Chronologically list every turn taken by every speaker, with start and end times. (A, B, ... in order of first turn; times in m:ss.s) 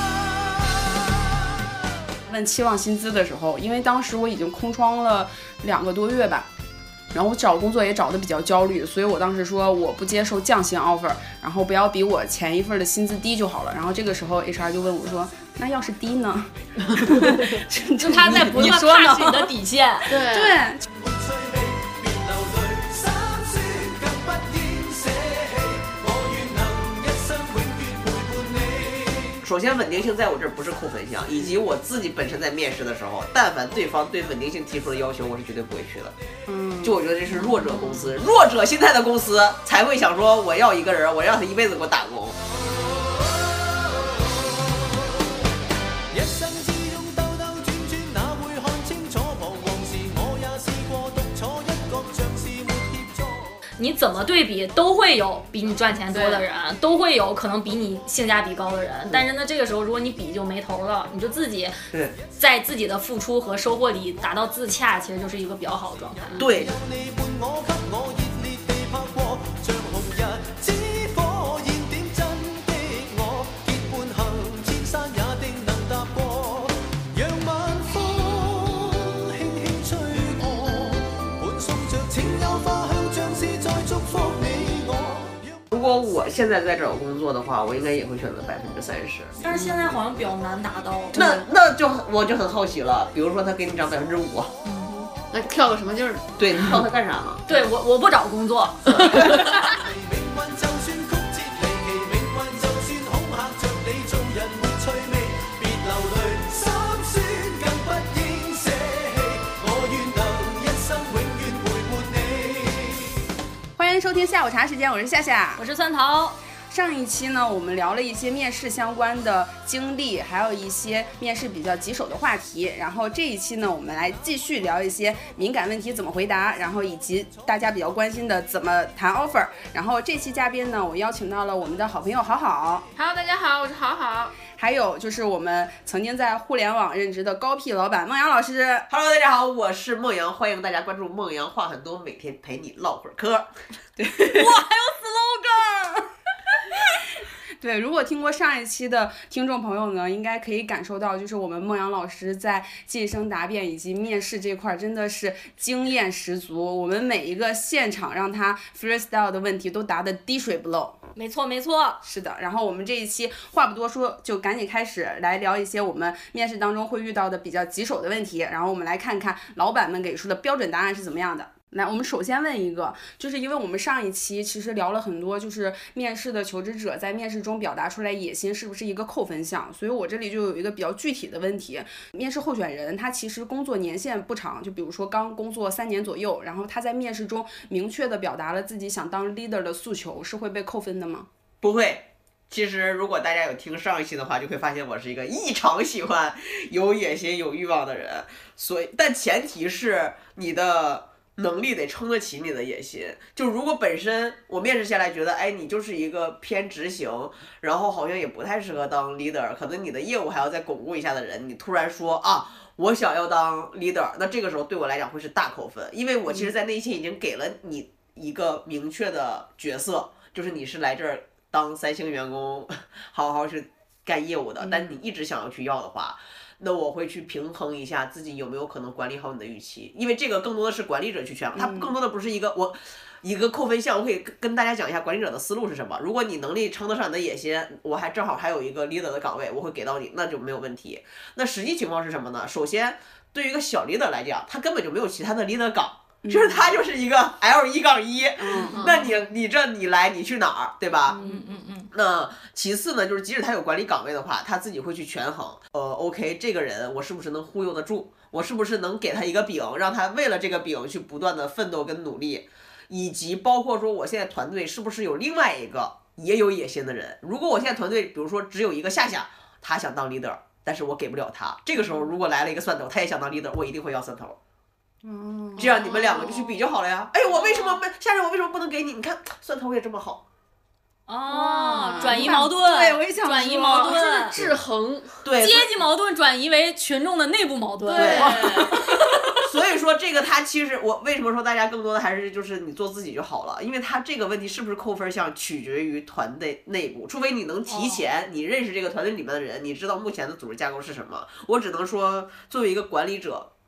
0:02.3-0:06.5 A
0:07.1-0:19.5 A
0:18.0-0:20.2 B
0:20.1-0:20.6 C
0:20.3-0:20.8 A
0:20.8-0:29.4 D
0:29.4-0:36.1 E
0:36.5-0:37.0 A
0:36.8-0:42.4 E
0:37.5-0:38.0 B
0:46.1-0:53.6 D
0:53.8-1:01.8 B
0:56.1-0:56.4 C
1:02.3-1:06.4 B
1:06.4-1:25.6 D
1:06.4-1:06.7 E
1:25.7-1:30.0 E
1:29.4-1:31.3 B
1:31.1-1:34.5 E
1:34.6-1:35.1 B
1:35.3-1:36.8 C
1:36.4-1:37.4 E
1:37.5-1:39.6 B
1:39.6-1:53.2 D
1:53.8-1:55.6 A
1:55.6-1:56.4 B
1:56.7-2:12.8 A
2:12.9-2:14.4 C
2:14.6-2:18.9 A
2:18.9-2:23.5 E
2:24.2-2:26.0 B
2:27.6-2:41.0 A
2:41.2-2:42.0 B
2:42.0-3:11.3 A
3:11.6-4:11.2 E
3:44.6-3:44.9 A
3:51.5-3:51.9 A
4:06.2-4:06.8 A
4:08.4-4:08.8 A
4:08.7-4:09.2 C
4:11.1-4:11.9 B
4:11.1-4:11.4 A
4:11.9-4:34.4 E
4:35.0-4:35.7 A
4:35.6-4:40.2 E
4:35.6-4:36.4 C
4:35.9-4:36.5 B
4:37.2-4:37.8 B
4:41.1-4:44.4 B
4:41.3-4:42.4 C
4:41.7-4:44.0 A
4:43.8-4:45.2 C
4:44.3-4:44.6 E
4:45.2-4:45.7 E
4:45.4-4:48.8 B
4:47.8-4:48.8 C
4:47.9-4:48.5 E
4:48.2-4:49.1 A
4:49.4-5:03.5 E
4:57.7-4:58.1 B